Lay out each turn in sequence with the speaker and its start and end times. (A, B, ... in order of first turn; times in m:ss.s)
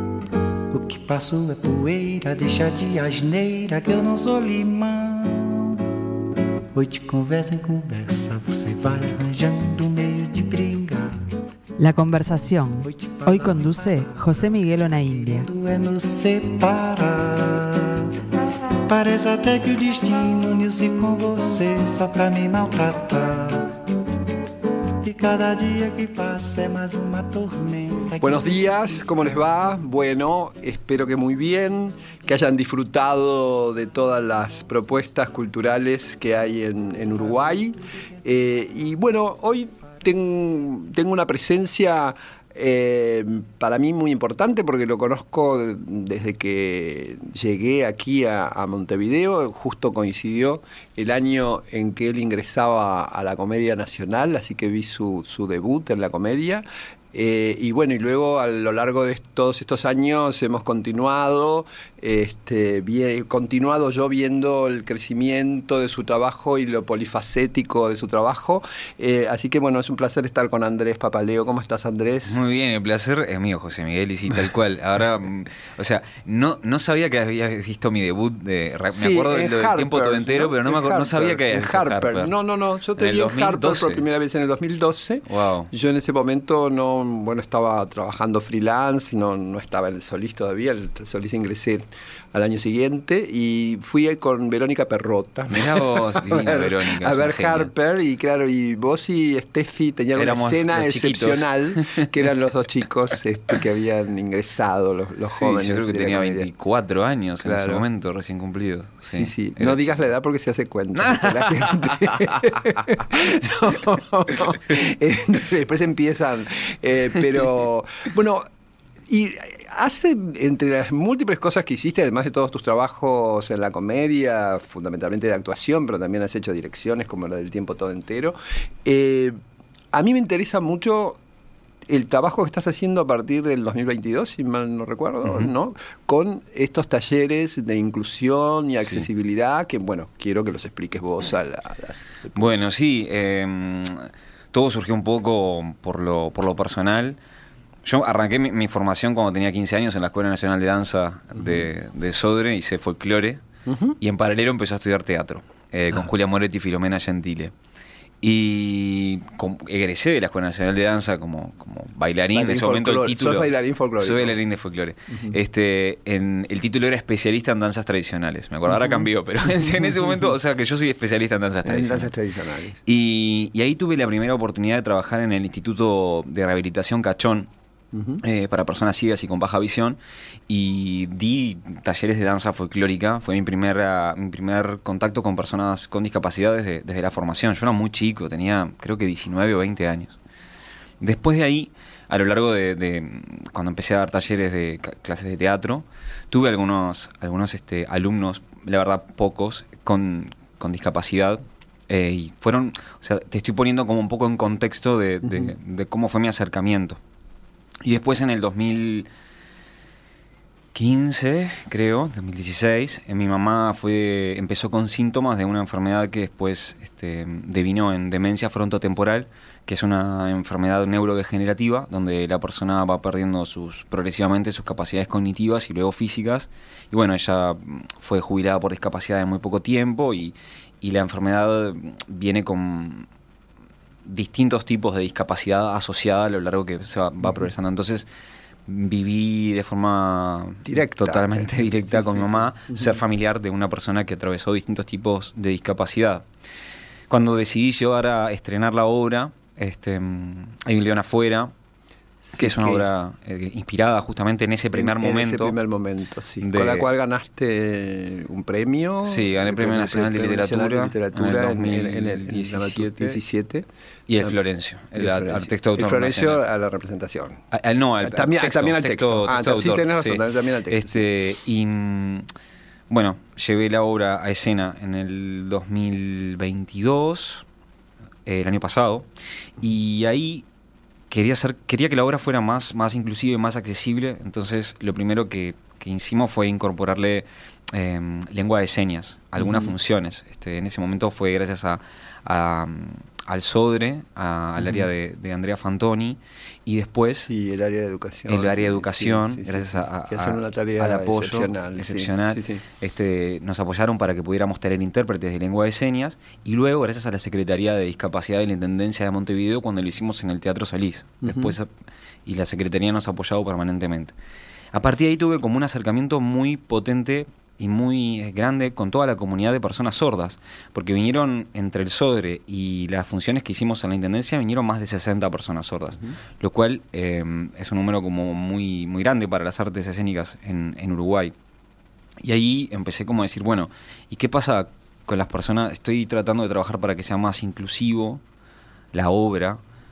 0:00.7-0:06.0 A
0:06.7-0:11.2 A
0:11.8-0:15.5 B
0:12.8-0:18.2 A
0:18.9-0:23.8 A
0:25.0-0:28.8 A
0:28.2-1:12.4 C
1:12.2-1:22.3 D
1:18.9-1:46.5 C
1:23.0-1:24.1 D
1:25.3-1:25.7 D
1:35.5-1:37.7 D
1:40.2-1:42.3 D
1:45.3-1:50.0 D
1:47.4-1:47.8 C
1:49.0-1:58.5 C
1:51.0-1:52.6 D
1:59.1-2:09.4 C
2:09.9-2:11.2 C
2:11.9-2:22.5 C
2:22.3-2:27.2 D
2:27.8-2:33.4 D
2:33.7-2:34.0 C
2:34.0-2:37.5 D
2:38.2-2:52.1 D
2:42.3-2:44.4 C
2:45.1-2:45.4 C
2:48.7-2:49.0 C
2:51.6-2:52.8 C
2:52.8-2:57.5 D
2:57.9-2:58.2 C
2:58.2-3:10.2 D
3:11.0-3:27.0 D
3:25.2-3:25.5 C
3:27.8-3:29.1 D
3:30.7-3:53.1 D
3:54.0-3:58.1 D
3:58.7-4:06.3 D
4:00.6-4:03.0 C
4:07.1-4:11.5 D
4:12.2-4:12.8 C
4:12.4-4:15.6 D
4:14.7-4:23.7 C
4:16.4-4:16.9 D
4:19.0-4:23.2 D
4:24.1-4:26.4 D
4:25.0-4:27.4 C
4:27.5-4:32.3 D
4:28.0-4:31.0 C
4:32.9-4:37.4 D
4:38.3-4:40.5 D
4:41.1-4:57.3 D
4:49.4-4:49.7 C
4:57.3-5:02.6 C
4:58.3-5:11.7 D
5:11.2-5:11.6 C
5:12.3-5:14.2 D
5:14.7-5:31.4 D
5:32.2-5:38.2 D
5:38.9-5:39.6 D